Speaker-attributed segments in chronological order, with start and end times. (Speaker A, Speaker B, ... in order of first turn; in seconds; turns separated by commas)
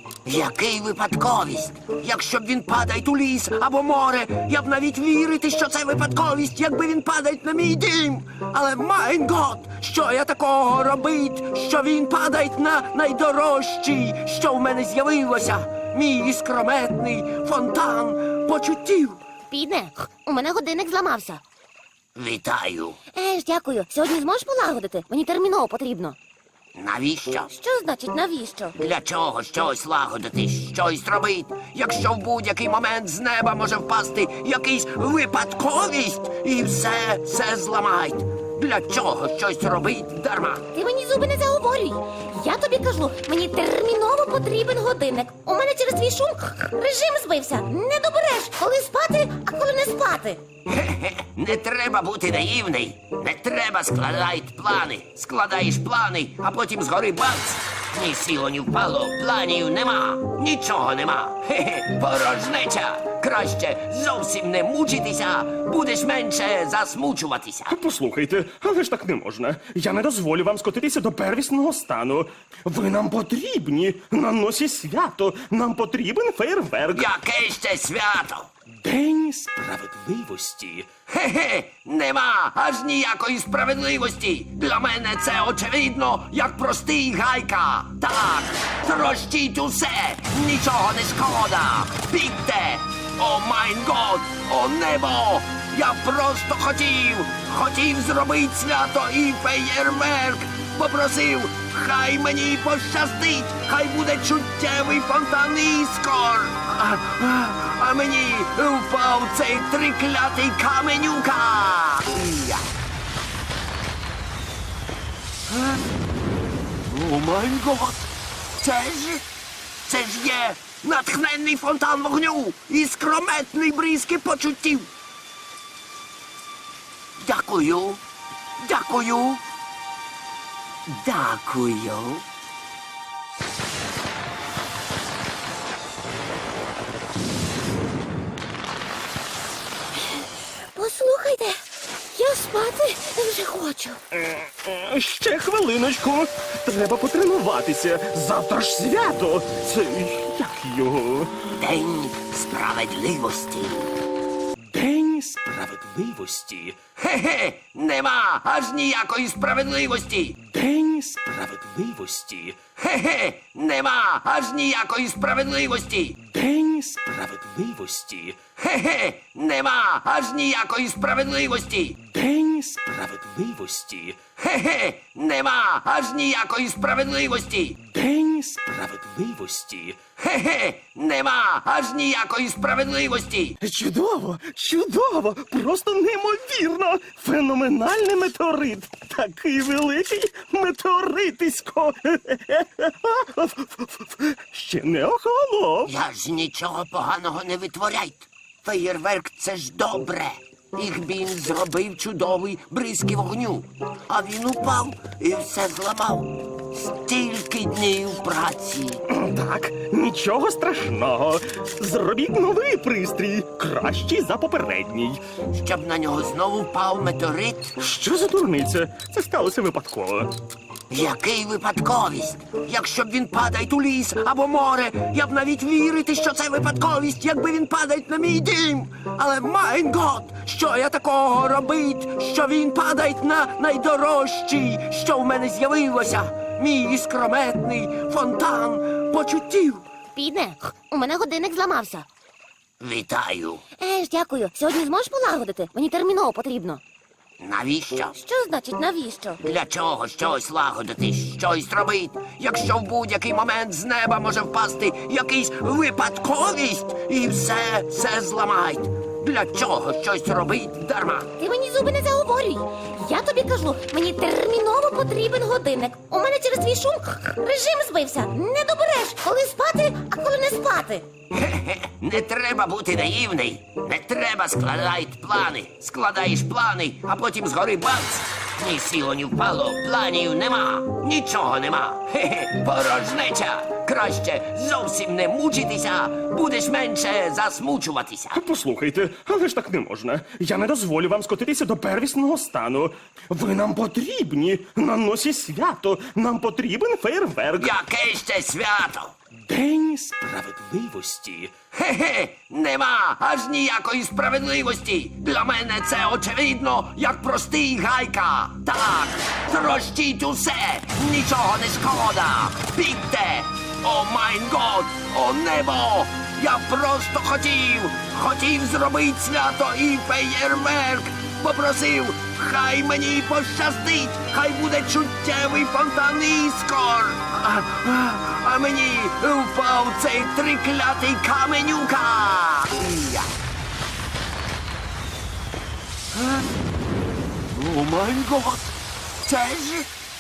Speaker A: 0.2-19.2, Speaker B: 19.5-21.4, Speaker A: 22.1-23.0, Speaker B: 23.1-26.2, Speaker A: 26.7-27.5, Speaker B: 27.5-28.8, Speaker A: 28.8-40.7, Speaker B: 40.7-50.4, Speaker A: 50.7-67.7, Speaker C: 67.7-77.1, Speaker A: 76.9-78.5, Speaker C: 78.8-80.9, Speaker A: 81.1-112.7, Speaker A: 115.5-115.8, Speaker A: 116.9-118.0, Speaker A: 118.6-119.2, Speaker A: 119.8-124.9, Speaker A: 127.2-128.0, Speaker A: 128.6-129.4, Speaker A: 130.9-132.2, Speaker B: 140.7-144.0, Speaker C: 144.1-151.4, Speaker A: 151.6-153.9, Speaker C: 154.7-156.8, Speaker A: 157.0-160.4, Speaker C: 160.5-162.6, Speaker A: 162.8-166.2, Speaker C: 166.3-168.4, Speaker A: 168.6-172.1, Speaker C: 172.1-174.2, Speaker A: 174.4-177.8, Speaker C: 177.9-180.0, Speaker A: 180.2-183.6, Speaker C: 183.6-195.9, Speaker A: 195.8-209.0, Speaker C: 209.1-215.2, Speaker A: 215.5-217.8, Speaker C: 217.8-220.3, Speaker A: 220.9-239.9, Speaker B: 240.1-242.1, Speaker A: 242.8-243.6, Speaker B: 243.8-246.8, Speaker A: 247.4-248.2, Speaker B: 248.2-249.4, Speaker A: 249.4-261.3, Speaker B: 261.4-271.1, Speaker A: 271.4-288.4, Speaker C: 288.3-297.7, Speaker A: 297.6-299.1, Speaker C: 299.5-301.5, Speaker A: 301.7-333.3, Speaker A: 336.1-336.5, Speaker A: 337.5-338.7, Speaker A: 339.2-339.9